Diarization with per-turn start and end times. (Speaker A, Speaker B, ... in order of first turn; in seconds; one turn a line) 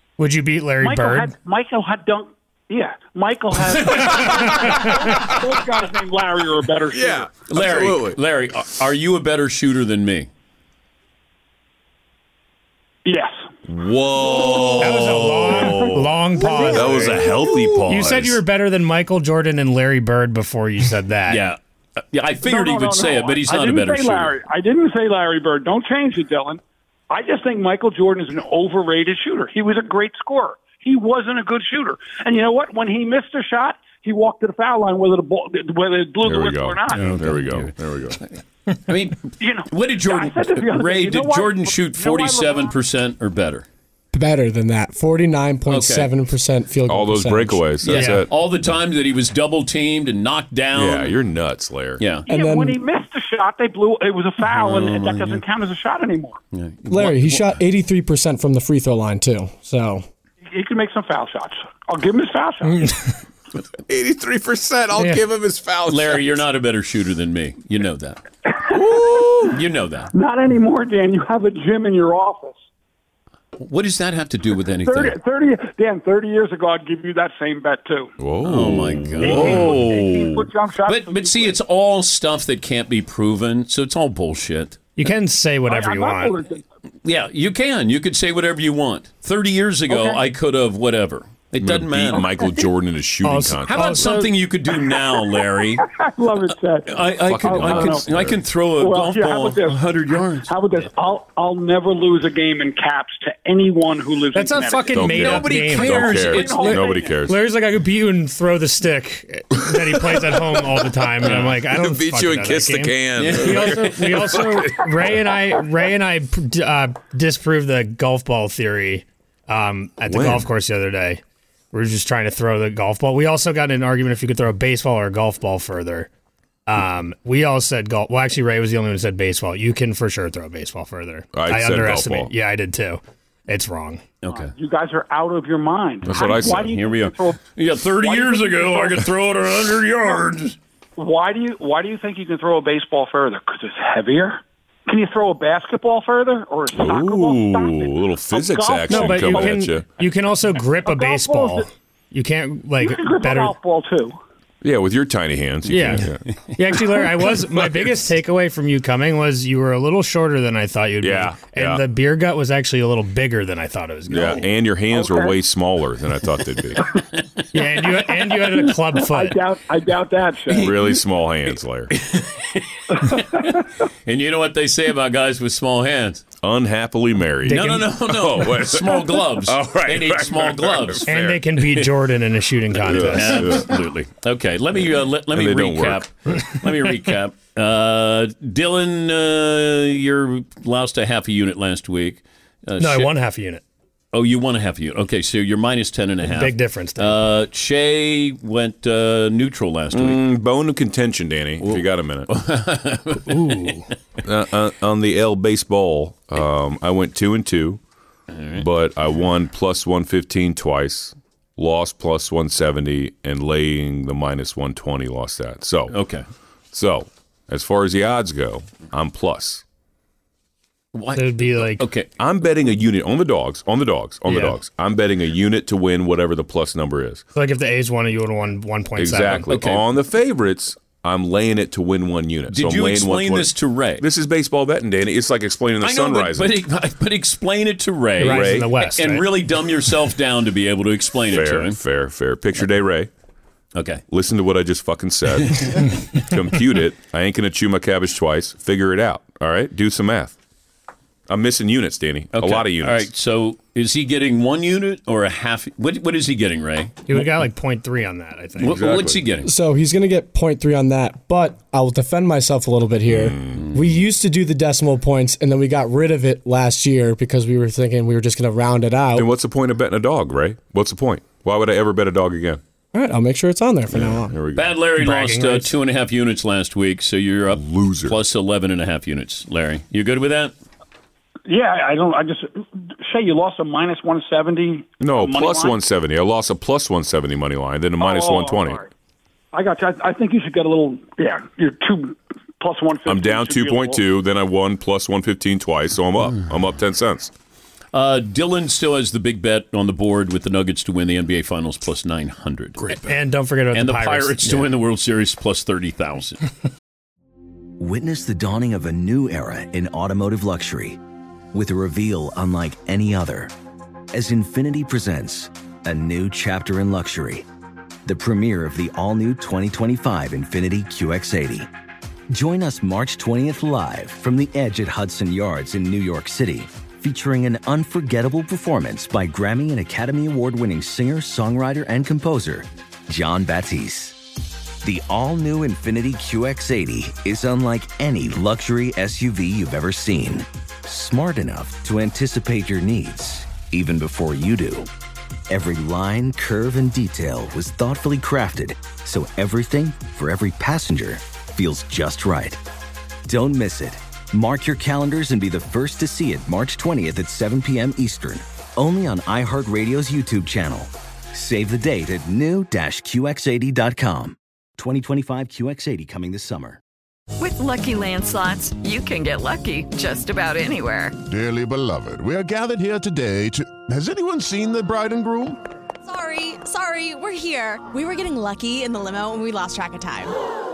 Speaker A: 0.2-1.3
Speaker B: 0.8-7.3
Speaker C: 6.9-8.2
Speaker D: 7.5-10.3
Speaker B: 13.1-13.4
Speaker C: 13.7-18.4
Speaker B: 14.4-14.6
Speaker A: 14.8-21.4
Speaker B: 16.6-17.0
Speaker D: 21.3-21.6
Speaker D: 22.1-24.3
Speaker B: 22.4-37.1
Speaker C: 36.2-38.2
Speaker D: 36.9-38.2
Speaker D: 38.9-43.7
Speaker B: 39.4-42.7
Speaker E: 44.1-47.7
Speaker D: 45.7-46.1
Speaker C: 46.9-48.3
Speaker D: 47.8-51.2
Speaker A: 47.9-48.2
Speaker C: 50.7-52.0
Speaker D: 52.0-52.3
Speaker B: 52.3-56.4
Speaker E: 52.3-52.8
Speaker D: 54.4-55.4
Speaker D: 56.5-57.6
Speaker E: 56.9-60.1
Speaker B: 60.5-62.9
Speaker C: 63.9-66.2
Speaker D: 65.9-68.2
Speaker B: 68.5-69.5
Speaker C: 68.7-69.6
Speaker D: 69.5-70.1
Speaker B: 70.1-72.7
Speaker D: 73.6-75.2
Speaker B: 74.8-78.2
Speaker C: 78.2-80.5
Speaker D: 78.4-80.1
Speaker B: 79.2-81.6
Speaker D: 80.9-84.8
Speaker A: 85.0-86.4
Speaker B: 85.7-86.6
Speaker D: 87.0-92.3
Speaker B: 89.9-90.2
Speaker C: 91.6-94.1
Speaker A: 93.2-94.3
Speaker D: 93.7-95.8
Speaker B: 95.8-98.1
Speaker D: 96.9-100.5
Speaker C: 97.2-98.4
Speaker B: 98.8-99.8
Speaker B: 100.5-105.2
Speaker A: 104.3-121.2
Speaker C: 104.9-107.4
Speaker D: 105.1-106.8
Speaker B: 106.3-107.1
Speaker C: 109.6-115.2
Speaker D: 113.2-114.7
Speaker C: 120.1-120.5
Speaker A: 121.7-126.1
Speaker A: 126.7-134.0
Speaker C: 131.3-132.3
Speaker D: 134.2-134.5
Speaker B: 134.6-137.4
Speaker C: 136.0-136.8
Speaker D: 136.1-140.6
Speaker B: 138.0-139.0
Speaker B: 141.0-149.6
Speaker C: 146.8-149.9
Speaker A: 148.9-153.6
Speaker B: 150.8-151.7
Speaker B: 152.8-154.2
Speaker C: 154.6-156.2
Speaker A: 155.7-164.4
Speaker C: 161.0-161.8
Speaker C: 164.1-167.0
Speaker B: 164.9-165.3
Speaker A: 167.5-169.4
Speaker B: 169.0-170.8
Speaker D: 170.5-171.0
Speaker C: 170.5-171.9
Speaker D: 171.9-176.3
Speaker B: 173.1-173.6
Speaker C: 176.4-181.4
Speaker D: 177.4-181.9
Speaker A: 181.1-183.6
Speaker D: 182.8-193.1
Speaker C: 182.8-183.8
Speaker C: 185.3-186.6
Speaker A: 192.8-193.6
Speaker D: 194.1-200.2
Speaker A: 196.2-197.2
Speaker C: 199.9-202.3
Speaker D: 201.6-203.8
Speaker A: 203.3-203.9
Speaker C: 204.2-207.8
Speaker D: 208.3-208.7
Speaker C: 208.6-216.0
Speaker D: 215.9-216.2
Speaker C: 216.7-219.6
Speaker D: 220.9-222.1
Speaker A: 221.1-221.8
Speaker C: 222.2-227.2
Speaker A: 227.3-229.5
Speaker C: 229.0-236.6
Speaker D: 229.5-229.8
Speaker D: 232.5-234.1
Speaker D: 235.8-241.8
Speaker C: 238.2-238.9
Speaker A: 238.2-239.3
Speaker C: 241.3-243.1
Speaker D: 243.8-244.0
Speaker C: 244.1-250.4
Speaker D: 245.5-245.8
Speaker C: 251.3-253.1
Speaker D: 252.3-257.1
Speaker A: 257.1-258.9
Speaker D: 258.6-259.5
Speaker C: 258.7-259.2
Speaker E: 259.4-269.3
Speaker C: 263.1-263.8
Speaker D: 263.5-264.0
Speaker C: 269.1-272.6
Speaker E: 272.9-274.4
Speaker C: 273.9-274.8
Speaker D: 274.6-280.5
Speaker A: 275.0-275.7
Speaker C: 277.5-278.2
Speaker B: 281.5-285.8
Speaker C: 285.0-288.8
Speaker B: 288.0-288.9
Speaker B: 289.5-294.0
Speaker C: 293.1-297.3
Speaker D: 297.9-303.1
Speaker A: 302.9-304.7
Speaker D: 303.7-306.4
Speaker F: 307.8-311.0
Speaker F: 311.5-313.5
Speaker F: 314.1-317.5
Speaker F: 318.1-321.7
Speaker F: 322.3-334.2
Speaker F: 334.8-344.9
Speaker F: 345.5-352.6
Speaker F: 353.3-366.8
Speaker G: 367.4-371.2
Speaker H: 371.3-375.6
Speaker I: 376.2-380.3